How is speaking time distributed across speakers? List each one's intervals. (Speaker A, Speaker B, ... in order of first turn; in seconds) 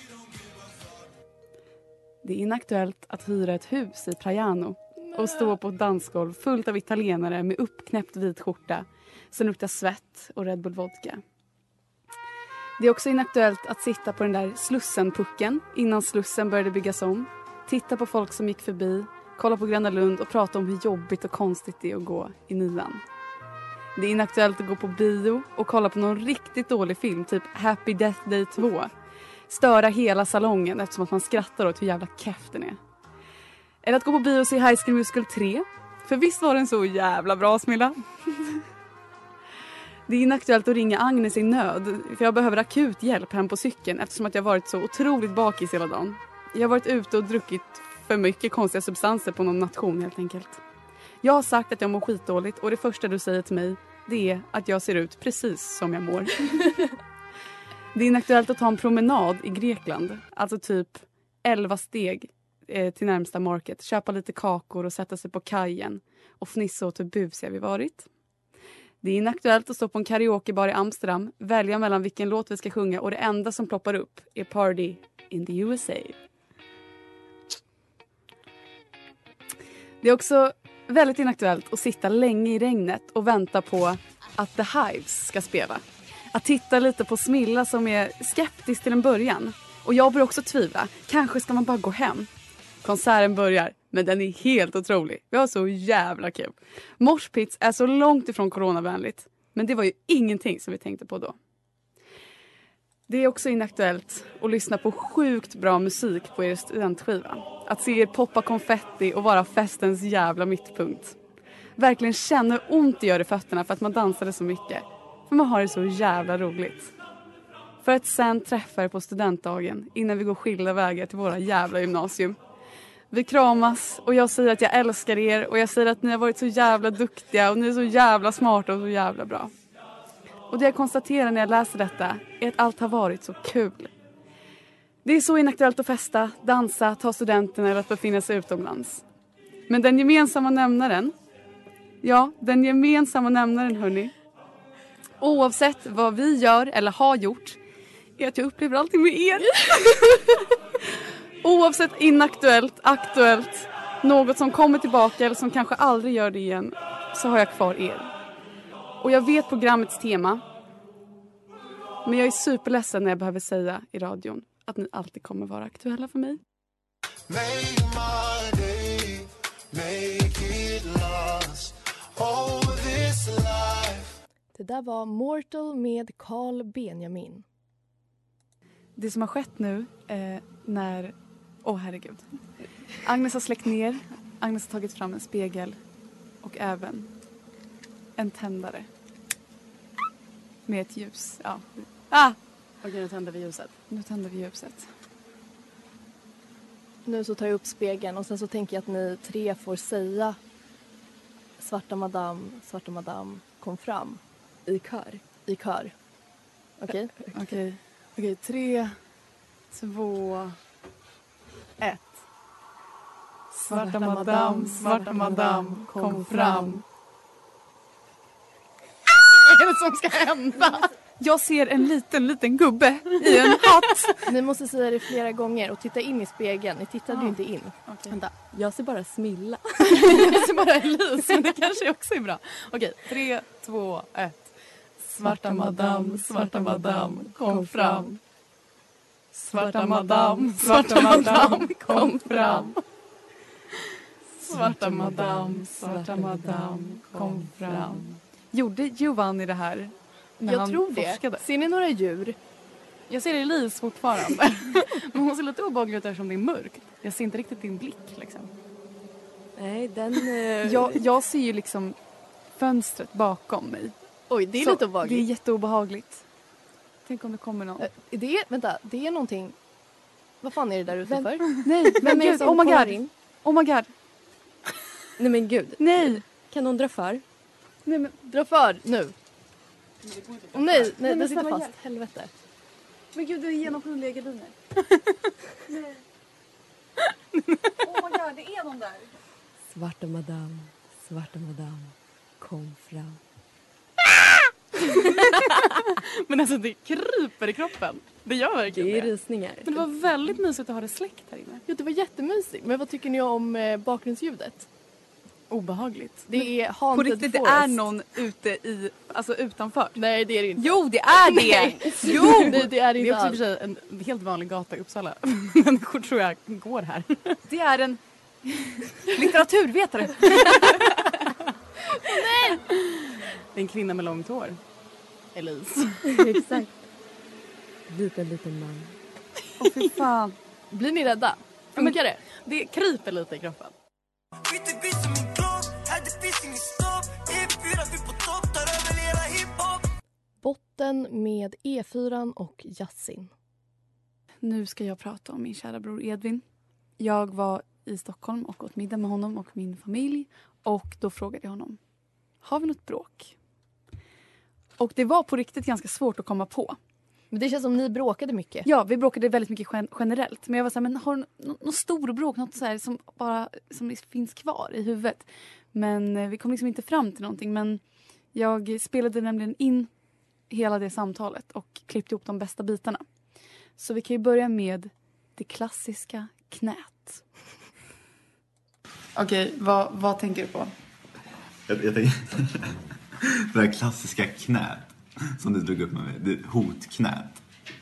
Speaker A: 2.2-11.2, 12.8-23.0, 24.0-28.9, 29.5-32.8, 33.8-38.6, 40.1-50.6, 51.2-56.7, 57.9-68.1, 69.0-76.2, 80.0-92.3, 92.8-101.4, 103.1-111.2, 111.8-116.9, 117.8-122.4, 123.1-129.5, 130.5-133.9, 135.0-139.1, 139.7-141.2, 142.0-144.1, 145.2-147.6, 148.2-150.5, 151.4-158.1, 159.0-160.4, 162.1-166.4, 179.0-182.3, 183.0-185.8, 186.4-187.1, 188.2-188.9, 190.7-192.4, 193.9-194.9, 213.7-216.8, 221.2-224.2, 227.9-228.2, 235.2-238.2, 239.5-242.7, 244.4-251.4, 260.6-262.0, 262.5-263.9, 264.6-266.2, 267.1-267.9, 271.4-273.9, 275.8-276.2, 277.9-278.2, 280.7-281.7, 283.1-284.6, 285.7-286.0, 287.8-289.1, 306.9-310.0, 310.6-312.7, 317.5-320.9, 329.6-330.4, 344.4-346.4, 347.0-351.8, 352.4-353.3, 354.8-356.8, 358.6-367.8, 368.3-369.9, 370.5-373.1, 373.8-377.2, 379.2-380.7
Speaker B: 5.2-5.5, 174.5-177.4, 197.1-200.4, 201.6-205.9, 206.8-207.3, 224.2-227.8, 228.5-230.4, 250.5-252.4, 259.6-261.0, 264.3-265.3, 267.8-269.6, 270.4-273.1, 275.2-277.2, 278.3-279.1, 280.5-282.3, 289.7-293.2, 298.7-299.8, 301.7-304.7, 306.3-307.8, 310.0-313.4, 322.0-322.6, 326.1-326.8, 327.9-328.9, 330.7-332.2, 340.4-343.3, 357.3-358.7
Speaker C: 167.3-174.1, 334.5-339.9
Speaker D: 192.8-193.8, 207.3-209.0, 209.7-210.6, 211.8-212.2, 213.5-216.8, 219.2-220.9, 223.2-224.1, 228.1-228.3, 229.8-238.2, 239.3-242.8, 244.5-248.0, 253.1-258.5, 287.3-287.7, 295.0-299.1, 299.6-301.6, 305.5-306.3, 312.5-317.4, 323.5-324.6, 325.4-326.2, 331.8-333.7
Speaker E: 381.7-382.8, 383.5-387.4